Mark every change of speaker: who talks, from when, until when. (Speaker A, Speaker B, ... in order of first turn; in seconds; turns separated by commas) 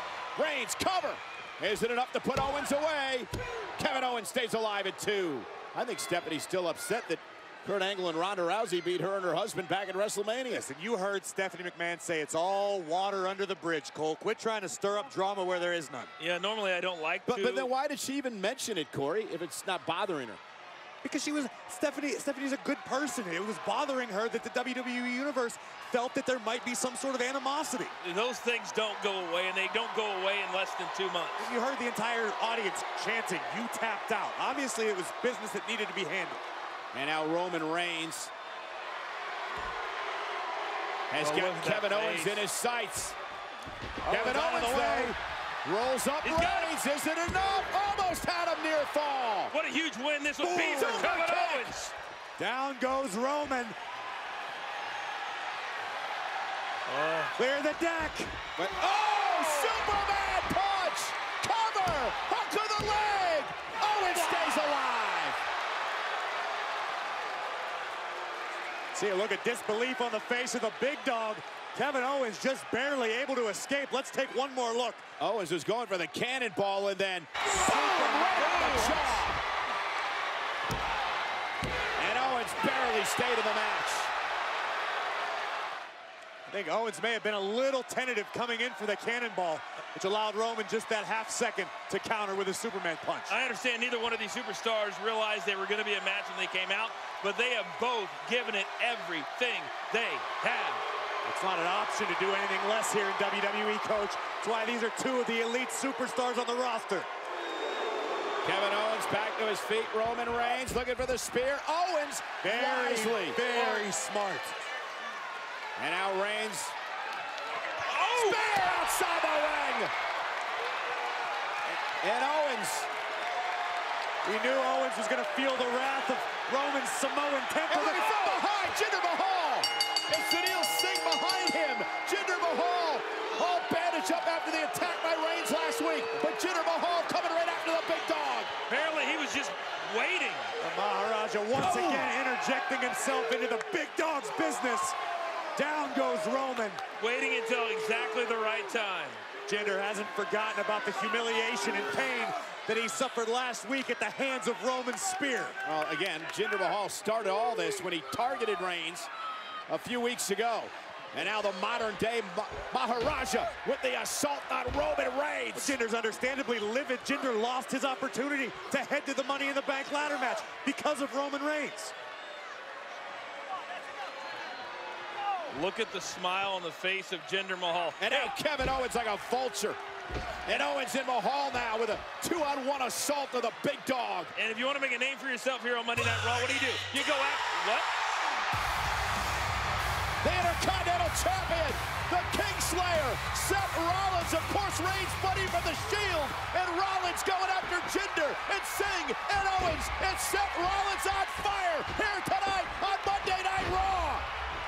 Speaker A: 0.4-10.6, Speaker B: 10.5-16.1, Speaker C: 16.2-17.7, Speaker A: 17.2-20.4, Speaker B: 21.0-27.9, Speaker C: 28.0-31.5, Speaker B: 31.4-36.4, Speaker A: 36.9-38.3, Speaker A: 41.1-43.2, Speaker C: 41.2-42.4, Speaker B: 44.0-45.2, Speaker A: 44.1-49.5, Speaker C: 46.2-46.7, Speaker C: 49.5-51.9, Speaker B: 50.4-51.1, Speaker A: 50.9-51.8, Speaker B: 52.4-53.8, Speaker C: 56.9-57.4, Speaker B: 57.4-58.4, Speaker A: 58.6-65.4, Speaker B: 68.9-75.0, Speaker A: 75.2-79.4, Speaker B: 77.5-79.2, Speaker A: 82.0-84.1, Speaker B: 86.5-93.3, Speaker C: 93.3-100.9, Speaker B: 101.2-107.1, Speaker A: 108.4-113.4, Speaker B: 112.4-114.6, Speaker C: 113.5-113.9, Speaker A: 115.8-116.8, Speaker A: 117.9-119.9, Speaker C: 118.0-118.4, Speaker A: 122.0-122.9, Speaker B: 124.2-128.4, Speaker A: 127.7-138.5, Speaker C: 138.7-140.5, Speaker B: 140.6-144.9, Speaker A: 141.6-142.1, Speaker B: 145.6-146.8, Speaker C: 147.0-149.2, Speaker B: 149.5-155.6, Speaker A: 155.6-159.1, Speaker A: 159.7-165.8, Speaker B: 165.6-171.9, Speaker C: 175.5-178.3, Speaker A: 178.0-179.8, Speaker A: 180.4-184.3, Speaker C: 184.3-187.9, Speaker A: 190.2-204.3